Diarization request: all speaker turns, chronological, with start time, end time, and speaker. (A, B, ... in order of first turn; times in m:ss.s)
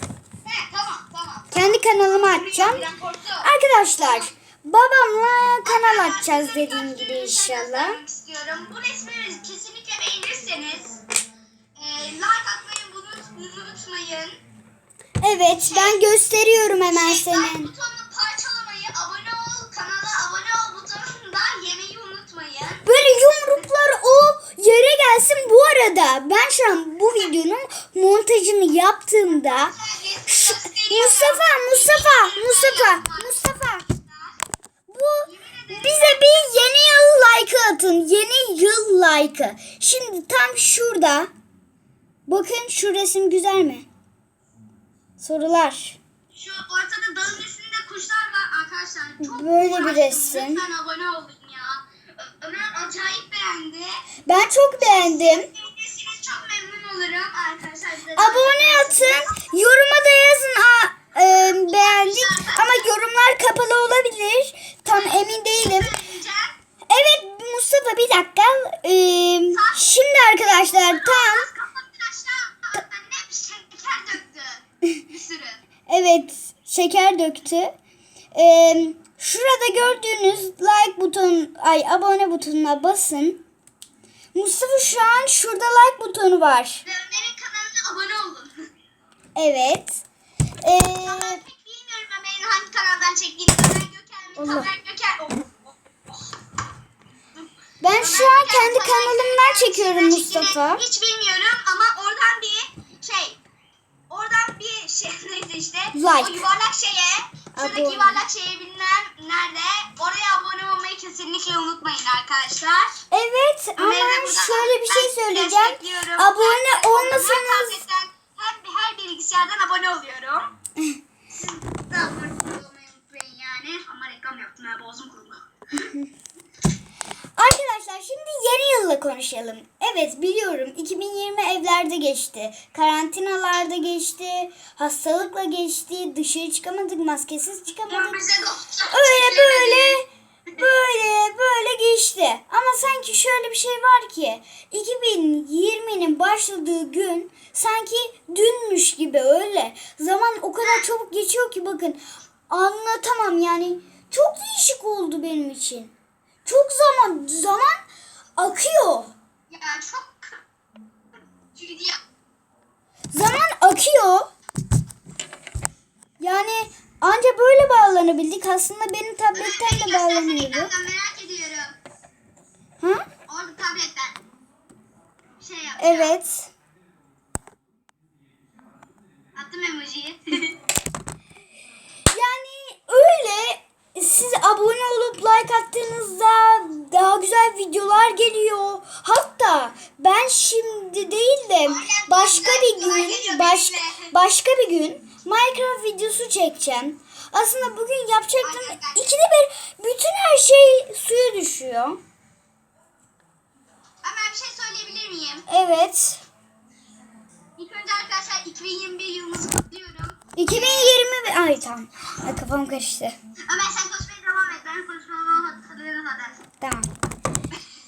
0:00.4-0:04.3 A
0:01.5-0:02.8 B
0:03.4-0:08.0 B
0:05.6-0:11.0 A
0:11.8-0:14.4 A
0:15.2-0:17.7 B
0:15.6-0:16.0 A
0:16.9-0:22.9 A
0:22.8-0:29.7 B
0:29.4-0:34.4 A
0:30.2-0:33.8 B
0:34.9-0:41.3 B
0:35.2-0:37.1 A
0:42.3-0:43.8 B
0:45.2-0:46.0 B
0:46.3-0:54.1 A
0:49.2-0:50.6 B
0:54.2-0:55.5 B
0:54.8-0:59.5 A
0:58.2-1:05.9 B
1:01.3-1:02.9 A
1:04.9-1:06.6 A
1:06.9-1:11.5 B
1:09.5-1:09.9 A
1:10.4-1:15.6 A
1:15.9-1:17.7 B
1:18.3-1:23.4 B
1:24.3-1:26.8 B
1:26.8-1:28.7 A
1:29.4-1:30.0 B
1:30.6-1:31.4 B
1:31.0-1:35.6 A
1:34.4-1:34.7 B
1:37.3-1:43.4 A
1:37.8-1:40.8 B
1:44.1-1:53.0 A
1:45.9-1:46.4 B
1:47.5-1:48.2 B
1:53.1-1:57.8 B
1:53.8-2:00.5 A
2:01.3-2:05.9 A
2:07.4-2:18.2 B
2:17.9-2:20.0 A
2:18.9-2:20.0 B
2:20.6-2:35.9 B
2:36.4-2:37.8 B
2:38.4-2:39.1 B
2:39.5-2:40.4 A
2:41.5-2:42.0 A
2:43.1-2:44.3 B
2:46.2-2:50.7 B
2:49.3-2:51.8 A
2:52.8-2:53.1 B
2:53.3-2:54.2 A
2:55.4-2:56.2 A
2:55.8-2:56.5 B
2:59.3-3:00.6 A
3:02.1-3:22.0 B
3:11.6-3:14.1 A
3:18.4-3:19.1 A
3:24.0-3:25.4 A
3:25.5-3:26.2 B
3:27.6-3:31.0 A
3:30.4-3:33.1 B
3:33.5-3:36.4 A
3:36.6-3:36.9 B